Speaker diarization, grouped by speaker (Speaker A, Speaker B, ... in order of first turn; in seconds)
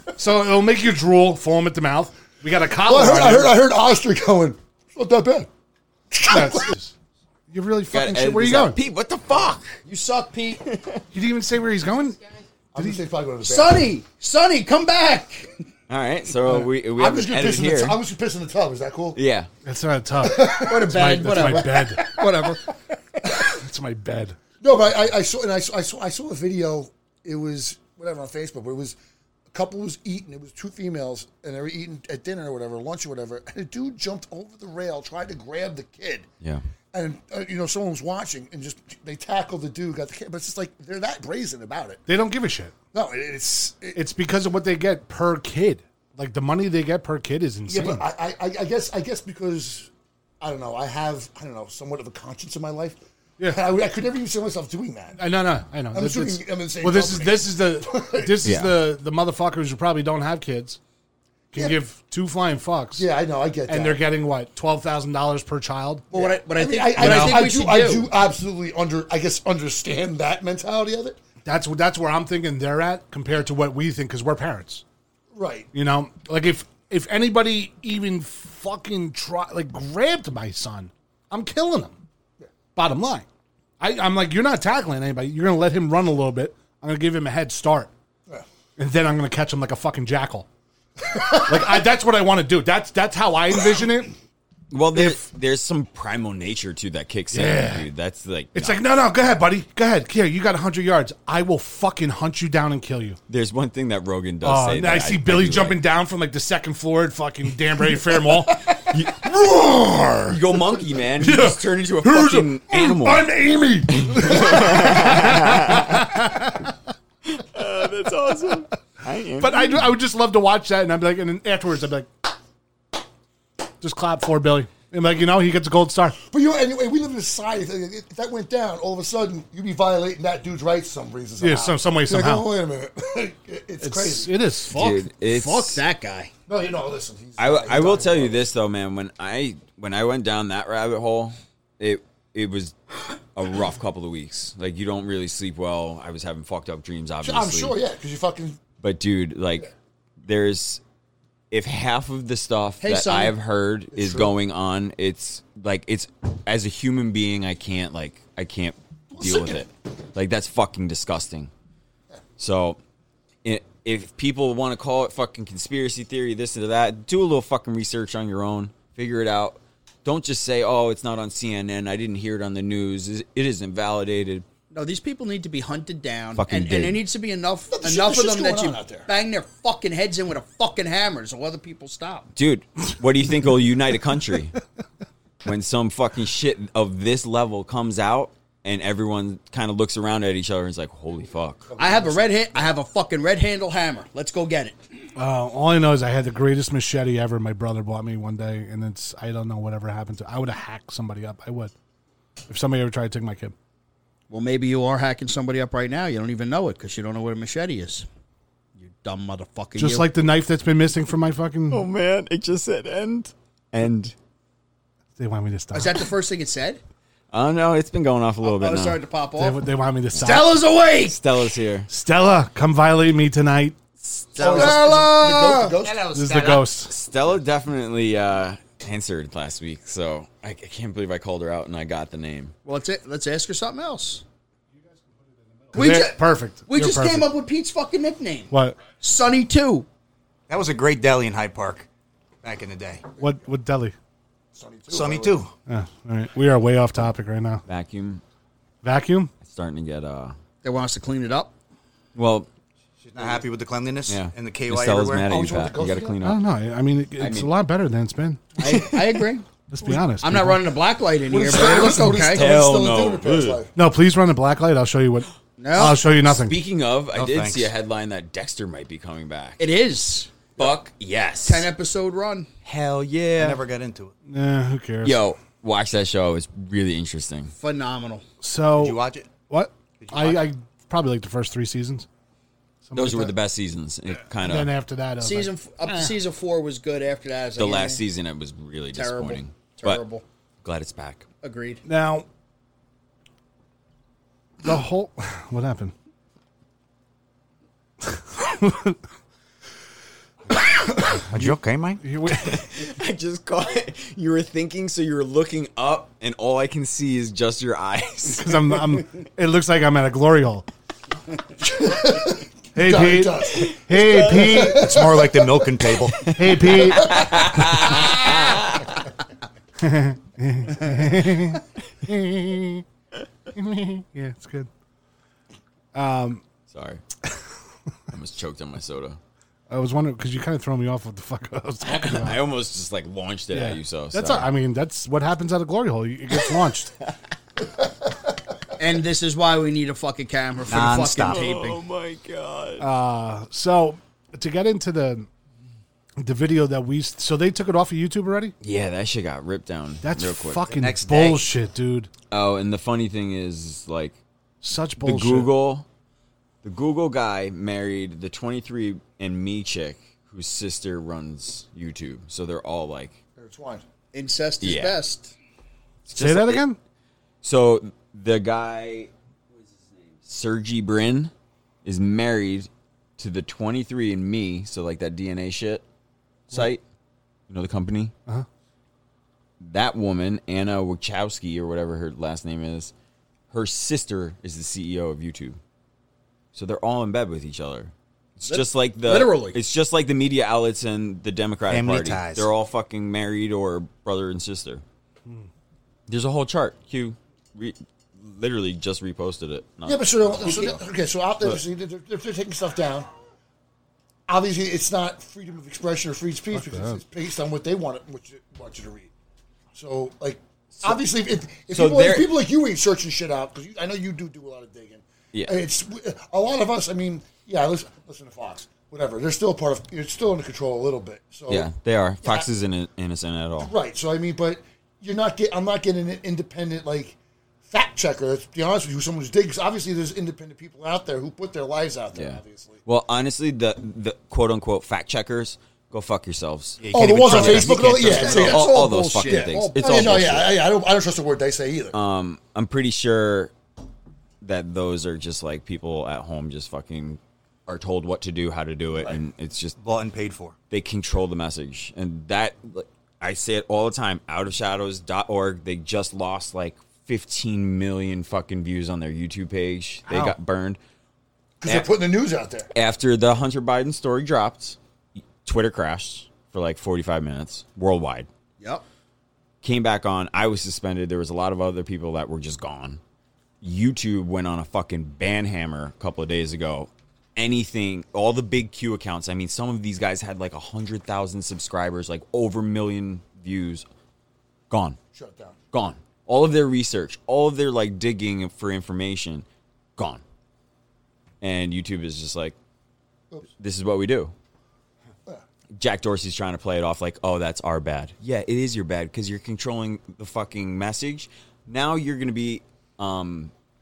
Speaker A: 0.2-3.6, 6.2-6.9, 7.5-8.8, 11.1-12.2, 12.8-13.0, 19.6-22.1, 23.5-24.4, 42.1-42.7, 44.0-48.0, 55.2-60.8, 61.5-63.1, 63.7-66.1, 67.0-67.4, 71.5-74.8, 75.7-82.0, 82.8-83.3, 83.8-87.9, 88.8-90.5, 91.3-94.1, 94.9-95.2, 97.3-97.9, 98.5-103.2, 104.4-108.8, 109.8-110.3, 111.2-116.7, 119.4-122.1, 123.8-126.2, 131.4-132.5, 133.8-135.0, 195.2-201.7, 202.5-203.5, 209.8-211.9, 215.2-216.0, 219.4-220.6, 221.9-223.8, 226.1-226.9, 235.0-237.3, 238.5-238.8, 243.2-243.9, 245.7-247.6, 248.8-249.3, 256.2-258.5, 259.7-260.6, 263.8-266.6, 274.3-275.2, 278.4-282.1, 282.9-283.3, 284.4-286.1, 291.9-292.3, 294.6-295.9, 298.1-299.0, 300.9-302.6, 308.4-310.7, 312.8-314.9, 316.4-317.3, 319.8-322.8, 323.6-324.7, 325.9-326.4, 329.7-332.4, 333.5-336.9, 342.8-345.3, 346.2-348.5, 350.0-352.1, 354.6-355.5, 366.1-366.8, 406.5-407.0, 460.1-460.4
Speaker B: 2.9-5.5, 6.1-6.7, 12.7-14.0, 17.0-19.2, 20.2-22.5, 23.2-23.5, 24.6-29.0, 29.5-36.3, 36.9-42.0, 42.9-44.0, 47.7-49.9, 50.4-55.2, 55.9-58.5, 63.0-64.0, 66.1-71.2, 75.3-75.7, 126.2-134.4, 136.5-138.4, 147.2-148.6, 154.0-154.3, 159.1-159.6, 177.7-179.1, 191.7-192.6, 224.4-226.1, 244.5-245.4, 255.2-256.2, 261.2-263.7, 311.6-315.6, 363.4-363.8, 399.9-403.1, 404.3-409.1, 409.8-421.7, 423.6-427.2, 427.7-432.8, 436.9-441.9, 461.6-462.7, 485.1-485.6
Speaker C: 7.9-9.8, 15.9-18.0, 19.1-19.5, 58.4-58.8, 94.7-98.8, 103.3-105.8, 108.9-109.4, 110.3-113.3, 113.9-116.2, 117.3-119.9, 134.7-135.8, 137.4-142.8, 143.3-147.8, 148.8-149.7, 150.2-150.8, 151.5-161.5, 162.4-162.8, 163.4-174.4, 176.4-177.0, 182.3-184.6, 185.4-191.7, 211.7-214.1, 217.3-219.0, 220.9-221.9, 224.0-224.8, 226.8-232.5, 247.7-248.2, 249.4-250.3, 252.2-252.5, 254.1-256.4, 257.2-257.5, 261.5-263.6, 266.2-269.6, 270.6-271.7, 272.7-273.6, 275.0-277.5, 282.9-284.7, 287.6-290.0, 290.6-291.3, 302.4-308.9, 313.8-314.2, 316.2-318.9, 326.7-327.0, 328.1-329.2, 331.9-334.5, 341.3-342.9, 348.6-350.7, 352.3-354.2, 355.0-355.9, 356.6-363.2, 364.6-365.0, 366.1-366.6, 367.4-371.3, 371.9-375.8, 376.5-376.8, 377.5-378.1, 379.6-382.9, 383.5-385.6, 386.5-394.8, 396.1-400.8, 410.7-411.0, 411.7-412.4, 421.5-423.7, 432.1-440.6, 441.9-443.5, 444.4-449.8, 450.7-460.8, 461.6-461.9, 462.7-464.8, 465.4-468.3, 469.6-473.0, 473.6-483.9, 484.7-485.0, 485.7-489.4, 490.0-490.2, 491.4-492.6, 493.6-494.3, 495.8-503.5
Speaker D: 9.9-10.6, 13.4-15.5, 20.6-22.6, 66.1-68.1, 134.7-136.3, 152.8-153.3, 174.7-182.3, 191.8-194.8, 204.3-208.1, 208.8-210.1, 215.7-216.8, 218.4-219.6, 220.2-221.2, 224.3-225.9, 232.7-234.2, 235.7-239.9, 250.6-251.5, 258.6-259.5, 260.2-262.5, 265.6-266.0, 269.6-270.4, 271.4-272.5, 277.5-278.2, 285.2-288.0, 288.9-290.2, 291.4-291.8, 338.8-341.8, 364.1-365.4, 388.5-389.6, 438.7-440.4
Speaker E: 240.5-241.9, 242.4-243.0, 244.9-245.5, 253.0-255.4, 267.1-267.7, 272.7-274.1, 278.8-279.3, 280.0-280.5, 301.3-302.0, 314.6-316.2, 340.7-341.4, 350.7-351.5, 391.7-392.5, 436.8-439.7, 449.8-450.6